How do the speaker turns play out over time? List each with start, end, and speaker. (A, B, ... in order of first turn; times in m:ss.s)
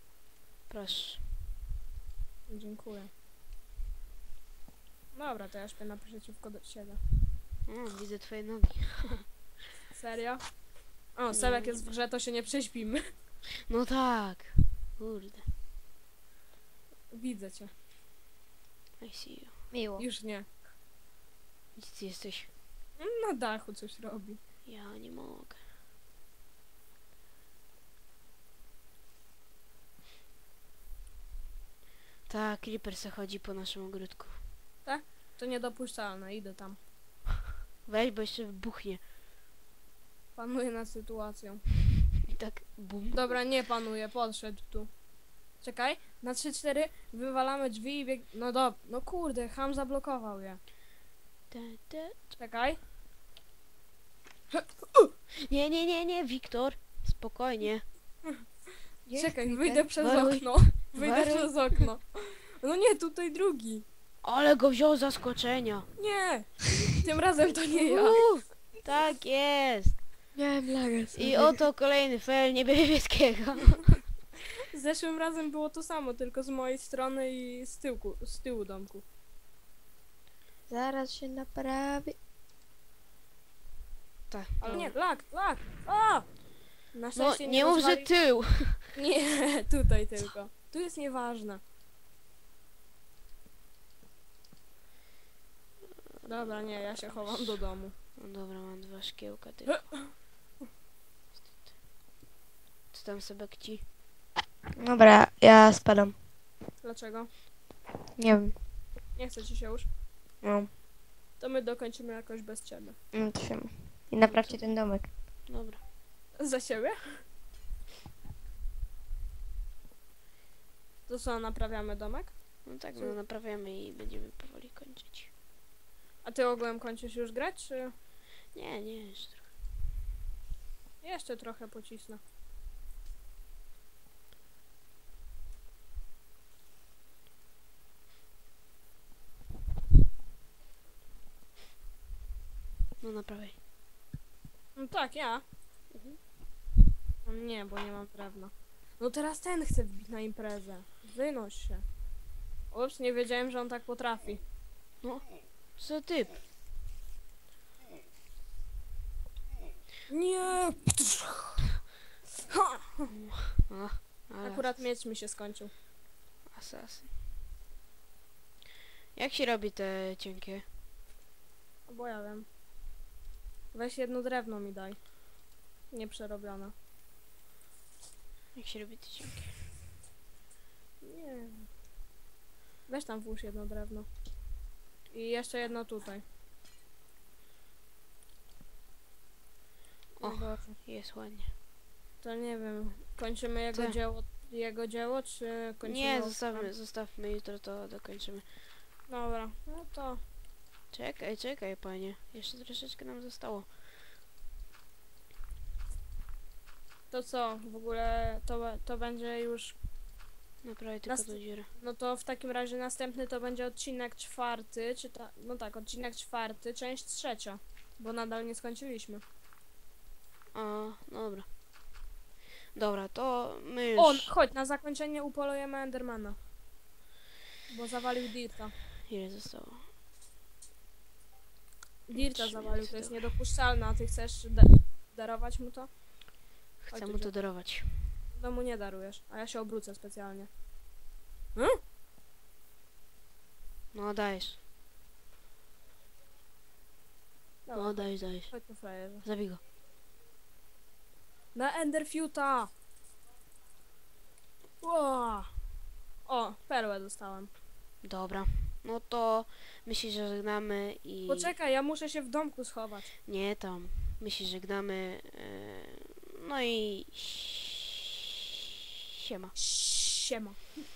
0:00.7-0:01.4 A
0:02.5-0:03.1 B
0:05.1-0:07.0 B
0:07.7-0:09.2 A
0:09.9-0:13.1 B
0:11.3-0:11.9 A
0:13.7-0:15.5 A
0:17.1-0:17.7 B
0:19.0-0:19.6 A
0:19.7-0:20.1 C
0:20.0-0:20.6 B
0:21.8-0:22.5 A
0:23.0-0:24.4 B
0:24.6-0:25.6 A
0:32.3-0:34.4 A
0:34.8-0:36.8 B
0:37.9-0:39.0 A
0:40.4-0:41.6 B
0:42.3-0:43.4 A
0:43.1-0:45.0 B
0:45.6-0:50.6 B
0:51.5-0:52.4 A
0:52.4-0:52.8 B
0:54.5-0:55.1 B
0:55.4-0:57.8 A
0:59.1-0:59.9 C
0:59.1-1:03.8 B
1:00.0-1:01.7 A
1:04.2-1:05.9 A
1:06.0-1:08.3 B
1:07.7-1:10.0 A
1:10.4-1:11.6 C
1:11.1-1:14.0 A
1:14.7-1:19.0 B
1:20.7-1:22.2 C
1:24.3-1:25.0 A
1:24.6-1:28.1 B
1:27.1-1:29.0 A
1:28.6-1:31.6 B
1:36.2-1:40.0 A
1:36.2-1:38.0 B
1:39.7-1:40.1 B
1:42.9-1:43.8 A
1:44.8-1:46.2 C
1:46.8-1:47.3 B
1:48.2-1:48.6 C
1:49.2-1:49.9 B
1:50.4-1:50.7 C
1:51.4-1:53.0 B
1:53.1-1:55.1 C
1:54.2-1:54.7 A
1:55.5-1:55.8 A
1:56.4-1:57.2 B
2:01.1-2:03.2 B
2:02.6-2:05.3 A
2:06.2-2:07.9 B
2:08.5-2:09.5 A
2:11.0-2:12.2 B
2:23.0-2:23.6 A
2:24.8-2:25.4 B
2:25.9-2:26.2 A
2:27.2-2:31.9 B
2:32.7-2:34.4 B
2:35.0-2:36.4 A
2:40.1-2:41.6 B
2:42.5-2:43.1 B
2:43.2-2:44.8 A
2:44.4-2:45.7 B
2:46.5-2:47.1 A
2:49.2-2:50.7 A
2:51.9-2:52.5 B
2:53.7-2:55.1 B
2:55.9-2:56.7 B
2:58.6-2:59.5 A
3:01.0-3:01.7 B
3:02.9-3:04.1 B
3:05.1-3:06.2 B
3:10.2-3:11.5 A
3:10.2-3:10.8 B
3:12.2-3:16.7 B
3:15.8-3:18.4 A
3:19.1-3:20.2 B
3:20.9-3:23.7 A
3:27.1-3:29.8 B
3:30.6-3:31.7 A
3:31.1-3:39.2 B
3:40.5-3:41.5 A
3:42.7-3:44.3 A
3:44.0-3:46.4 B
3:47.7-3:48.7 B
3:49.1-3:49.9 A
3:52.1-3:56.0 B
3:52.1-3:53.2 A
3:56.8-3:58.2 A
3:56.9-4:00.5 B
4:03.9-4:04.6 A
4:07.6-4:09.2 B
4:07.7-4:09.6 A
4:11.5-4:12.7 B
4:14.8-4:15.6 B
4:16.2-4:17.5 B
4:18.0-4:21.6 A
4:21.3-4:23.1 B
4:23.3-4:27.8 A
4:29.2-4:29.5 A
4:29.6-4:30.6 B